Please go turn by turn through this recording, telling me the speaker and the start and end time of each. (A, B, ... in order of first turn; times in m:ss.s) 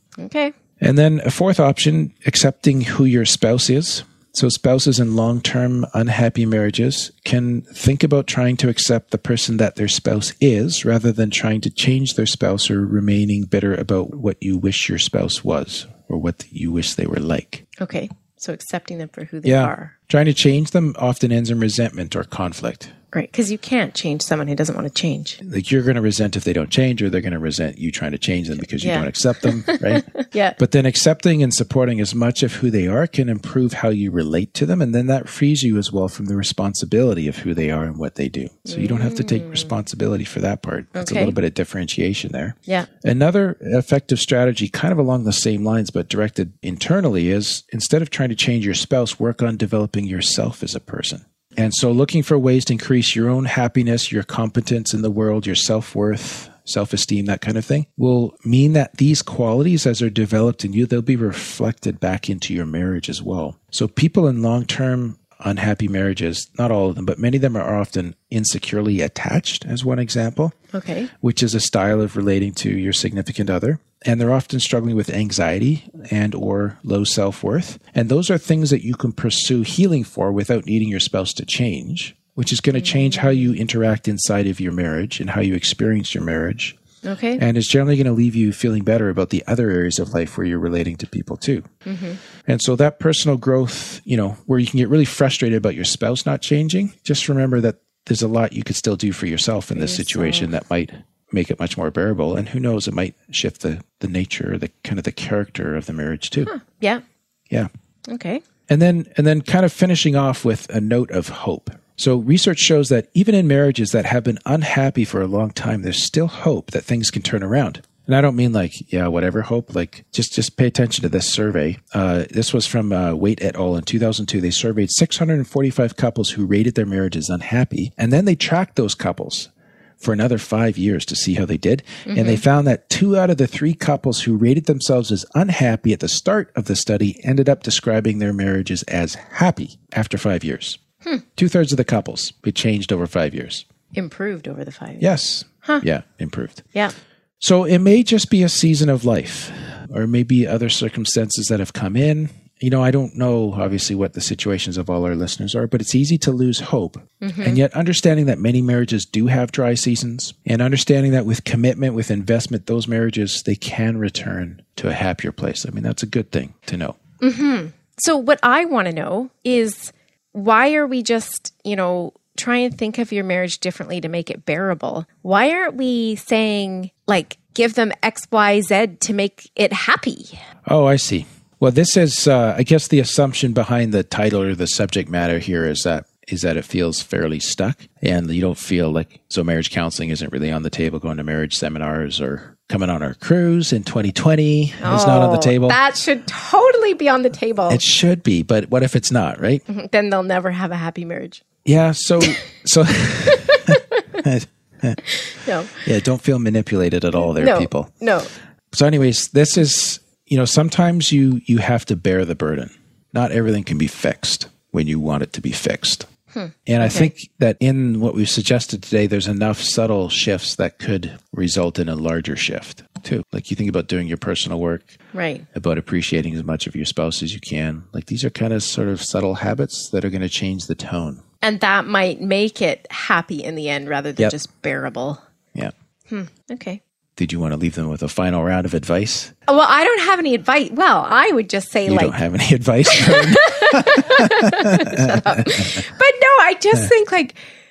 0:00.2-0:00.5 A
0:00.8-0:17.6 B
0:17.8-0:19.9 A
0:19.4-0:22.9 B
0:23.1-0:25.4 A
0:25.4-0:30.1 B
0:28.8-0:30.6 A
0:30.6-1:10.6 B
0:38.7-0:39.7 A
0:41.0-0:41.4 A
1:10.7-1:11.1 A
1:11.2-1:26.8 B
1:22.8-1:23.5 A
1:27.0-1:27.4 A
1:27.4-1:31.7 B
1:31.9-1:32.2 A
1:32.5-1:46.5 B
1:39.8-1:40.5 A
1:46.5-1:47.0 A
1:48.1-1:48.4 A
1:48.7-2:20.8 B
2:12.1-2:12.4 A
2:21.4-2:23.7 B
2:23.9-2:25.1 A
2:25.0-2:26.6 B
2:27.4-2:47.0 B
2:37.2-2:37.6 A
2:47.2-3:00.4 A
3:00.7-3:15.8 B
3:14.8-3:17.8 A
3:17.7-3:19.6 B
3:19.7-3:21.4 A
3:21.6-3:25.1 B
3:23.4-3:24.2 A
3:25.1-3:25.8 A
3:25.7-3:27.9 B
3:27.2-3:28.3 A
3:28.7-3:36.1 B
3:36.3-3:37.1 A
3:36.7-3:45.0 B
3:45.1-3:45.5 A
3:45.5-3:51.2 B
3:51.4-3:55.2 A
3:56.1-3:56.8 A
3:57.2-3:59.3 B
3:59.5-4:02.2 A
4:01.9-4:05.8 B
4:02.9-4:07.4 A